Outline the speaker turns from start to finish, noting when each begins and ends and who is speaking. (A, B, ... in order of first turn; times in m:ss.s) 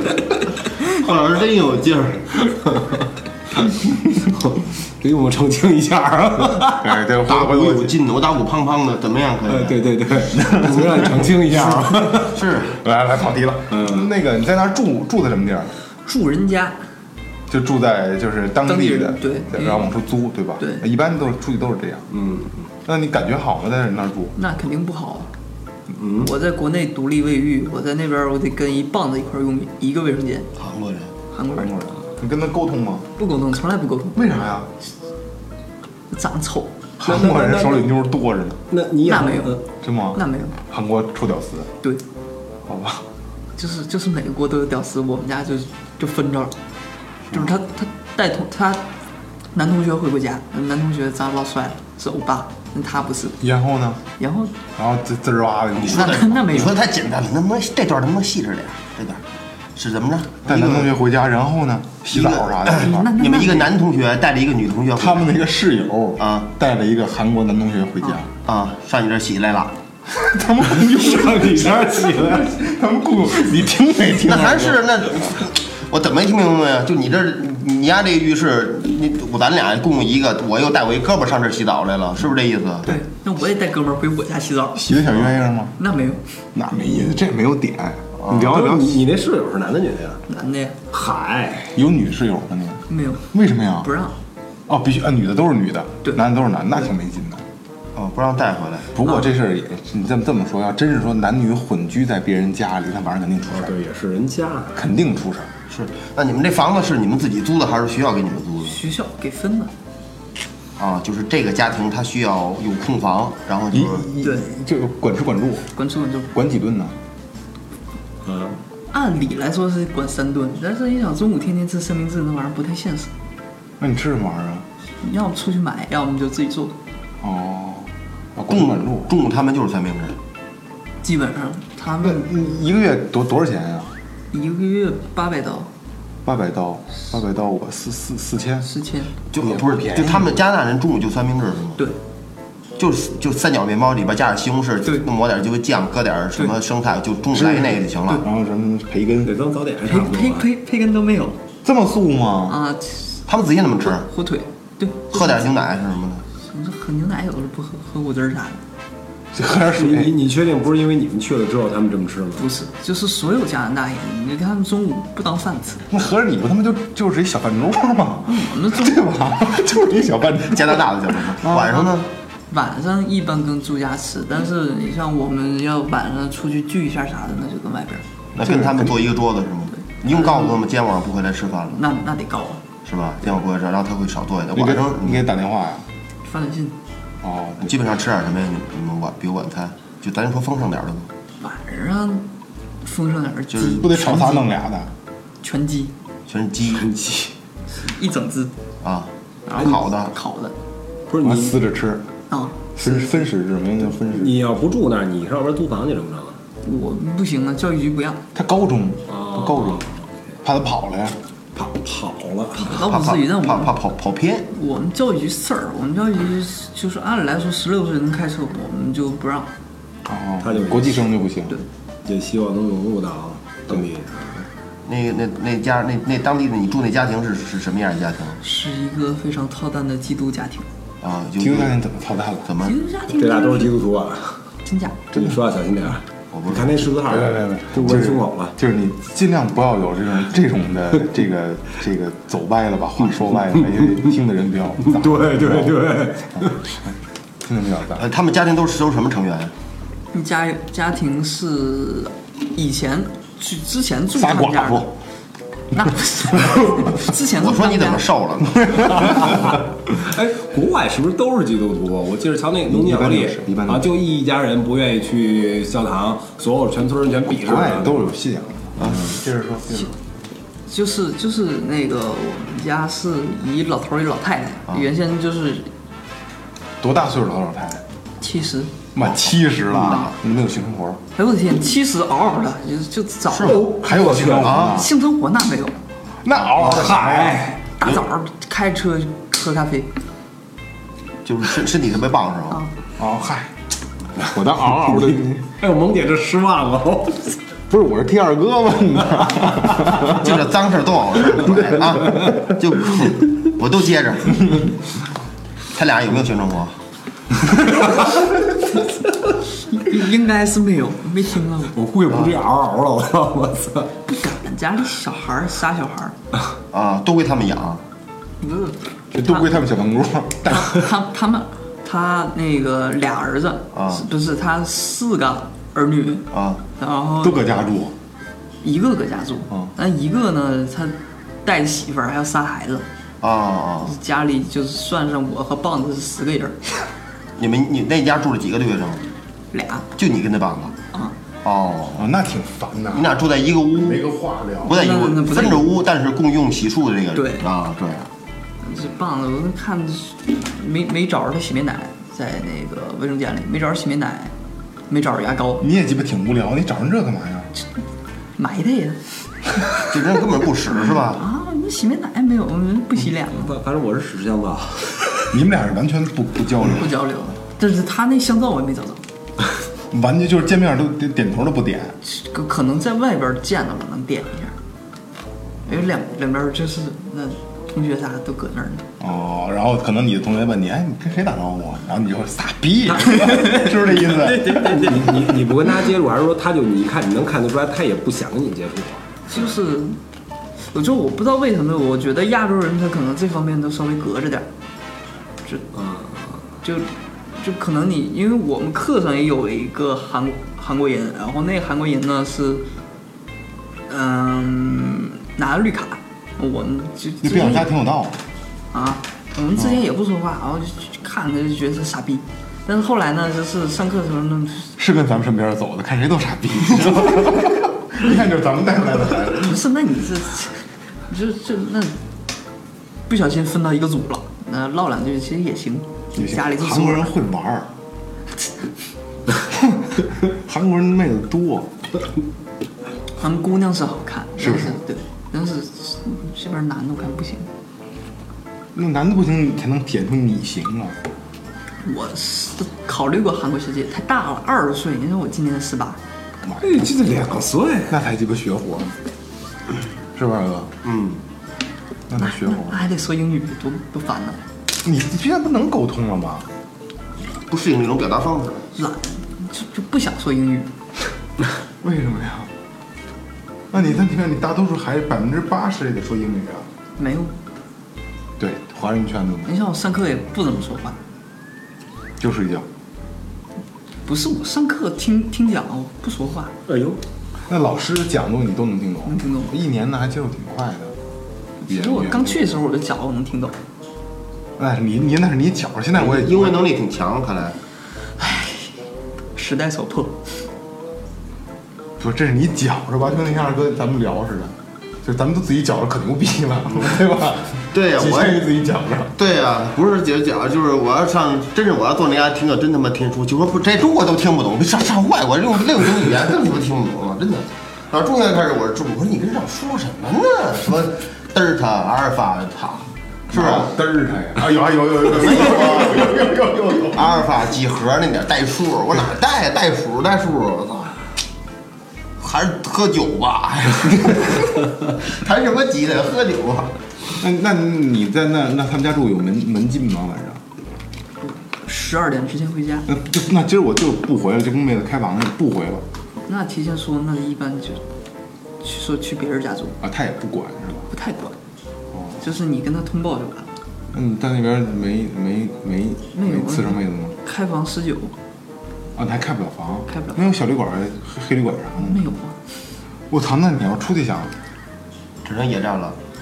0:00.8-0:02.5 A
0:04.3-0:07.0 B
0:06.7-0:07.9 C
0:07.3-0:09.8 A
0:09.5-0:12.4 B
0:10.4-0:15.7 C
0:12.3-0:12.8 A
0:13.7-0:14.0 B
0:16.1-0:16.8 D
0:17.5-0:22.1 C
0:18.6-0:19.9 D
0:22.1-0:22.7 B
0:22.9-0:24.4 C
0:24.4-0:25.3 D
0:26.0-0:26.3 B
0:26.2-0:30.5 D
0:30.6-0:31.1 A
0:31.3-0:31.7 D
0:31.5-0:33.1 C
0:33.2-0:34.2 D
0:34.2-0:34.7 C
0:36.1-0:36.7 D
0:37.0-0:38.6 C
0:37.0-0:37.9 B
0:38.7-0:39.6 B
0:39.0-0:39.6 D
0:39.8-0:41.7 C
0:40.1-0:40.6 D
0:42.6-0:43.0 C
0:43.6-0:46.6 D
0:47.3-0:47.6 A
0:47.3-0:48.9 D
0:49.5-0:53.4 D
0:53.4-0:54.0 C
0:54.2-0:54.6 D
0:54.8-0:56.7 C
0:55.8-0:59.2 A
0:55.9-0:56.8 D
0:59.8-1:00.9 A
1:00.5-1:03.1 C
1:02.2-1:05.3 A
1:02.7-1:03.7 D
1:05.0-1:08.3 C
1:06.2-1:06.5 A
1:08.4-1:09.7 A
1:10.1-1:15.1 C
1:10.8-1:12.5 B
1:14.2-1:22.9 A
1:22.8-1:25.0 D
1:24.8-1:25.8 C
1:25.8-1:26.2 D
1:26.5-1:29.0 C
1:28.2-1:28.5 A
1:28.3-1:30.2 B
1:30.3-1:30.8 D
1:30.9-1:31.8 B
1:31.7-1:33.9 C
1:32.9-1:34.2 D
1:34.7-1:37.4 C
1:38.0-1:38.9 A
1:38.9-1:43.8 C
1:39.0-1:39.3 D
1:43.5-1:44.8 B
1:44.7-1:45.5 C
1:45.7-1:48.8 A
1:48.6-1:49.7 D
1:50.8-1:54.1 A
1:53.7-1:55.7 C
1:54.2-1:54.5 D
1:55.8-1:56.3 D
1:56.3-1:57.0 C
1:58.2-1:58.6 B
1:58.9-2:03.1 D
2:03.8-2:04.7 C
2:05.0-2:06.8 D
2:07.2-2:09.1 C
2:08.5-2:10.2 A
2:11.0-2:12.3 D
2:12.0-2:13.9 C
2:14.3-2:15.7 D
2:16.2-2:18.7 C
2:18.6-2:19.1 D
2:19.3-2:21.8 A
2:19.4-2:20.4 C
2:22.8-2:28.3 A
2:27.3-2:29.4 C
2:29.2-2:30.5 B
2:29.9-2:31.4 D
2:31.6-2:32.6 C
2:32.5-2:33.2 D
2:33.3-2:34.1 A
2:33.8-2:35.5 D
2:35.1-2:36.2 A
2:36.5-2:38.6 D
2:39.3-2:40.1 C
2:39.8-2:42.5 B
2:42.4-2:45.8 D
2:45.9-2:51.9 C
2:48.3-2:49.0 D
2:50.5-2:52.1 A
2:52.5-2:58.0 D
2:58.3-3:01.8 A
2:58.4-2:59.0 C
2:59.8-3:00.6 D
3:01.7-3:02.6 D
3:02.8-3:05.3 A
3:04.6-3:05.9 C
3:06.2-3:06.8 D
3:07.2-3:07.8 C
3:07.6-3:11.1 A
3:11.4-3:12.3 D
3:12.8-3:14.5 D
3:13.5-3:14.0 A
3:13.7-3:14.9 C
3:15.4-3:15.9 D
3:16.3-3:16.9 A
3:16.7-3:17.3 B
3:17.8-3:18.5 D
3:18.8-3:20.1 A
3:19.5-3:20.6 D
3:21.1-3:21.6 B
3:21.2-3:22.1 C
3:22.3-3:23.2 D
3:22.8-3:24.4 C
3:24.1-3:26.4 B
3:26.6-3:28.2 D
3:28.3-3:29.9 C
3:29.1-3:30.1 B
3:30.4-3:31.2 C
3:31.6-3:32.9 B
3:32.6-3:33.7 D
3:32.8-3:34.5 A
3:34.5-3:39.5 D
3:40.1-3:41.6 C
3:40.4-3:41.1 B
3:42.0-3:44.5 B
3:44.8-3:48.4 A
3:48.4-3:50.7 D
3:51.0-3:51.7 A
3:51.4-3:52.5 C
3:52.5-3:52.8 A
3:52.6-3:53.7 D
3:53.1-3:54.4 B
3:54.6-3:55.0 D
3:55.1-3:58.6 B
3:56.3-3:56.8 A
3:57.0-4:05.8 C
4:04.8-4:06.7 B
4:07.4-4:08.1 C
4:08.0-4:09.5 A
4:10.1-4:14.9 D
4:14.2-4:15.0 C
4:15.7-4:18.1 D
4:15.8-4:16.9 C
4:17.3-4:19.3 A
4:18.6-4:19.4 C
4:19.9-4:28.1 B
4:22.7-4:23.9 C
4:27.3-4:29.9 C
4:30.7-4:35.7 D
4:36.8-4:37.8 C
4:38.2-4:38.7 D
4:39.0-4:41.0 C
4:39.0-4:40.2 A
4:39.8-4:40.1 D
4:41.2-4:43.7 D
4:43.3-4:44.9 A
4:43.4-4:44.6 B
4:43.7-4:44.9 C
4:44.6-4:45.8 D
4:46.2-4:47.5 C
4:46.6-4:47.6 B
4:47.6-4:49.9 D
4:51.2-4:52.6 A
4:53.0-4:53.6 C
4:54.2-4:55.4 C
4:54.8-4:57.4 B
4:57.7-5:00.4 C
5:00.0-5:04.6 A
5:01.4-5:02.4 C
5:05.7-5:06.8 A
5:09.7-5:11.7 D
5:11.7-5:13.9 B
5:14.1-5:16.2 D
5:16.7-5:17.8 A
5:18.4-5:19.6 D
5:19.1-5:20.9 C
5:20.5-5:27.4 D
5:23.7-5:24.0 A
5:26.3-5:26.6 A
5:27.2-5:28.0 C
5:28.6-5:32.9 D
5:33.2-5:33.9 A
5:33.8-5:36.7 D
5:37.4-5:39.1 A
5:39.5-5:39.9 D
5:40.0-5:40.8 A
5:41.4-5:42.1 A
5:42.0-5:43.2 C
5:42.9-5:44.1 A
5:43.8-5:44.9 C
5:44.6-5:48.1 A
5:44.7-5:45.7 D
5:47.2-5:47.5 D
5:48.6-5:54.3 D
5:54.9-5:55.7 D
5:55.6-5:57.5 C
5:58.4-5:59.0 D
5:59.8-6:01.2 A
6:00.9-6:03.5 D
6:03.3-6:05.4 B
6:05.3-6:07.0 C
6:06.7-6:09.0 D
6:09.9-6:12.0 C
6:12.0-6:14.6 D
6:15.7-6:18.9 D
6:19.0-6:25.3 C
6:22.9-6:29.5 B
6:29.3-6:30.0 D
6:30.6-6:34.5 D
6:35.7-6:36.4 B
6:36.6-6:42.7 D
6:43.9-6:47.7 D
6:47.2-6:48.2 C
6:48.7-6:54.8 D
6:54.8-6:59.6 C
6:59.4-7:02.0 D
7:03.1-7:07.1 D
7:06.2-7:07.7 C
7:09.5-7:11.9 C
7:13.2-7:17.5 D
7:14.4-7:14.8 C
7:18.7-7:21.0 C
7:21.8-7:26.0 D
7:26.4-7:27.3 C
7:26.6-7:28.0 B
7:27.9-7:29.0 C
7:30.1-7:30.7 C
7:30.8-7:31.2 A
7:32.1-7:32.8 C
7:32.2-7:34.4 D
7:34.7-7:36.5 C
7:37.5-7:38.7 A
7:38.8-7:40.7 D
7:41.8-7:42.5 C
7:43.7-7:46.7 C
7:47.0-7:47.3 D
7:48.4-7:49.5 C
7:49.5-7:51.0 D
7:52.2-7:52.7 C
7:54.0-7:56.5 D
7:56.7-7:57.0 B
7:57.5-8:01.0 C
7:59.1-7:59.5 D
8:01.6-8:03.6 D
8:01.7-8:02.6 C
8:04.6-8:06.7 C
8:05.9-8:07.6 A
8:08.2-8:08.8 D
8:09.4-8:10.3 D
8:12.0-8:19.1 C
8:17.7-8:18.5 A
8:19.1-8:33.7 A
8:33.3-8:37.2 C
8:35.0-8:36.3 A
8:36.9-8:41.0 A
8:42.2-8:46.8 A
8:47.2-8:50.4 C
8:51.2-8:52.9 D
8:52.9-8:55.8 C
8:56.3-8:57.8 D
8:58.6-8:59.8 D
8:59.8-9:00.9 C
9:00.9-9:01.4 D
9:01.9-9:02.2 C
9:02.2-9:03.5 D
9:03.9-9:07.2 C
9:06.1-9:08.1 D
9:09.0-9:12.0 C
9:09.9-9:10.2 D
9:11.8-9:12.4 D
9:13.1-9:14.4 C
9:15.2-9:16.0 A